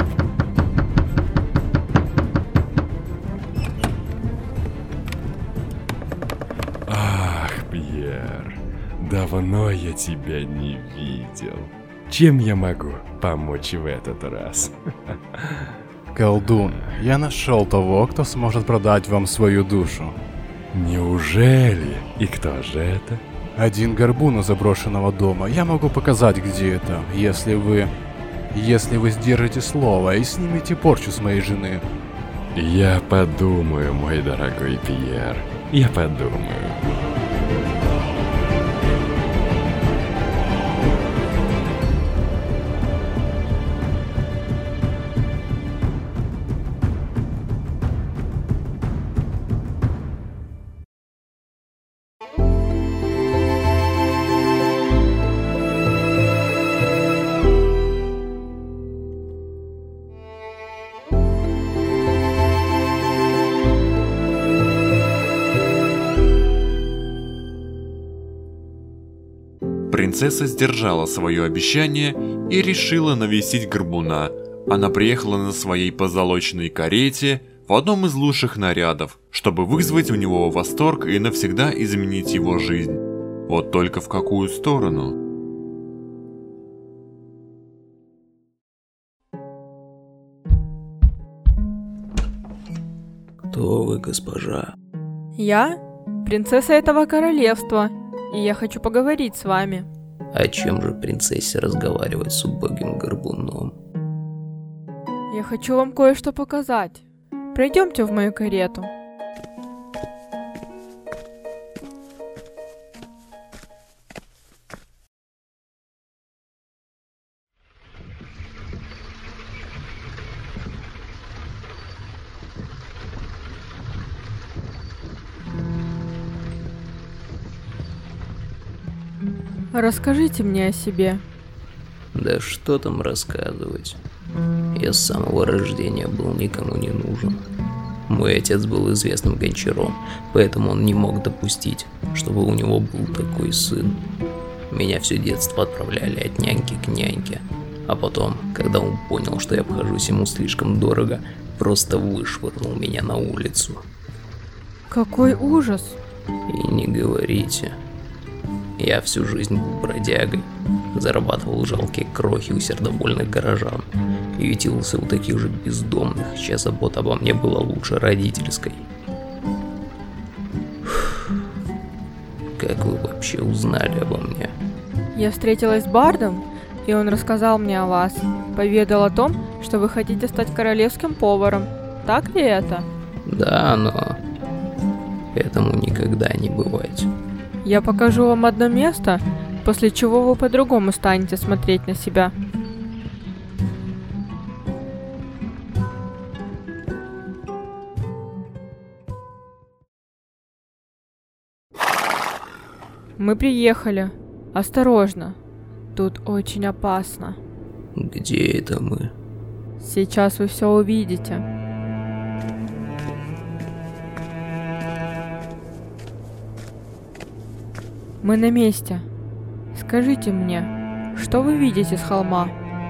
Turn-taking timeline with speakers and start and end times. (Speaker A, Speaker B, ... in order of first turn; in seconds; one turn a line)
Speaker A: 6.9-15.7
Speaker B: 16.1-20.1
Speaker A: 20.7-23.2
Speaker B: 23.6-27.9
Speaker B: 28.5-31.8
Speaker A: 32.5-37.1
Speaker C: 69.9-85.2
Speaker D: 93.5-94.7
Speaker E: 95.4-99.9
Speaker D: 100.3-103.8
Speaker E: 105.3-108.9
Speaker E: 129.7-131.2
Speaker D: 132.1-134.0
Speaker D: 134.7-137.4
Speaker D: 138.1-144.0
Speaker D: 144.7-153.8
Speaker E: 154.9-156.0
Speaker D: 156.5-157.8
Speaker D: 158.8-168.9
Speaker D: 172.6-174.5
Speaker E: 175.1-182.9
Speaker D: 183.2-184.2
Speaker D: 185.3-187.1
Speaker E: 187.6-192.3
Speaker E: 203.2-205.4
Speaker E: 205.9-207.4
Speaker D: 207.9-209.1
Speaker E: 209.8-211.4
Speaker E: 218.2-219.1
Speaker E: 219.7-222.5